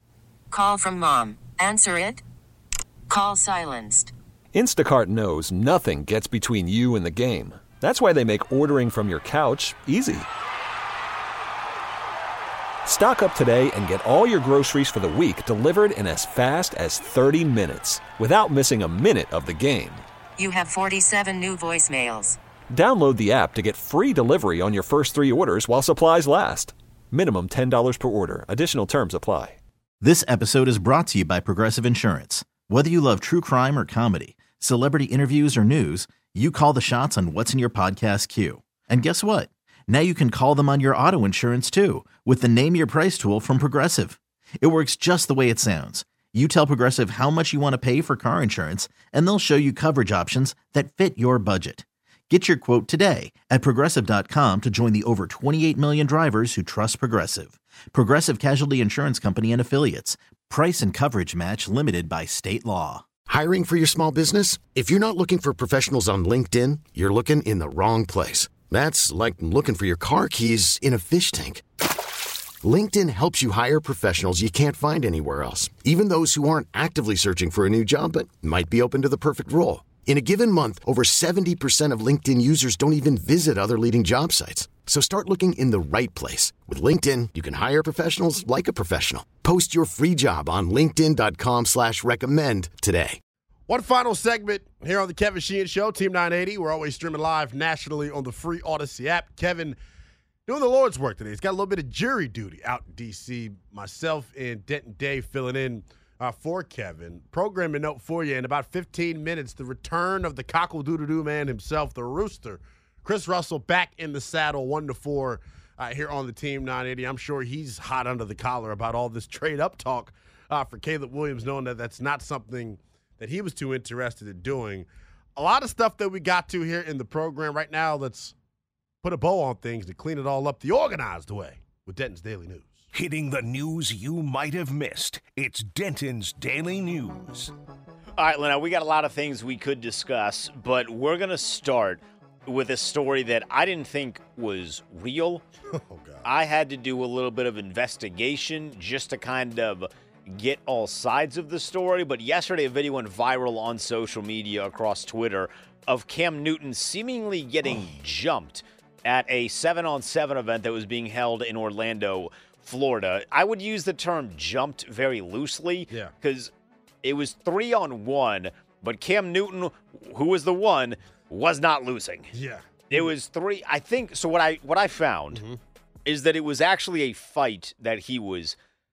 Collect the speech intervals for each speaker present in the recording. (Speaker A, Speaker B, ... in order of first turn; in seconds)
Speaker A: 0.5-2.2, 3.1-4.1, 20.4-22.4
Speaker B: 4.5-10.3, 12.8-20.0, 22.7-29.6
Speaker C: 30.0-63.0
Speaker D: 63.3-71.6, 72.6-93.2
Speaker E: 93.7-99.8, 100.5-128.3, 129.0-132.8, 145.7-146.3, 172.3-173.1, 175.3-175.6
Speaker F: 132.9-137.5
Speaker G: 138.2-145.4, 146.2-166.5, 167.0-172.3, 172.9-175.4, 176.1-178.6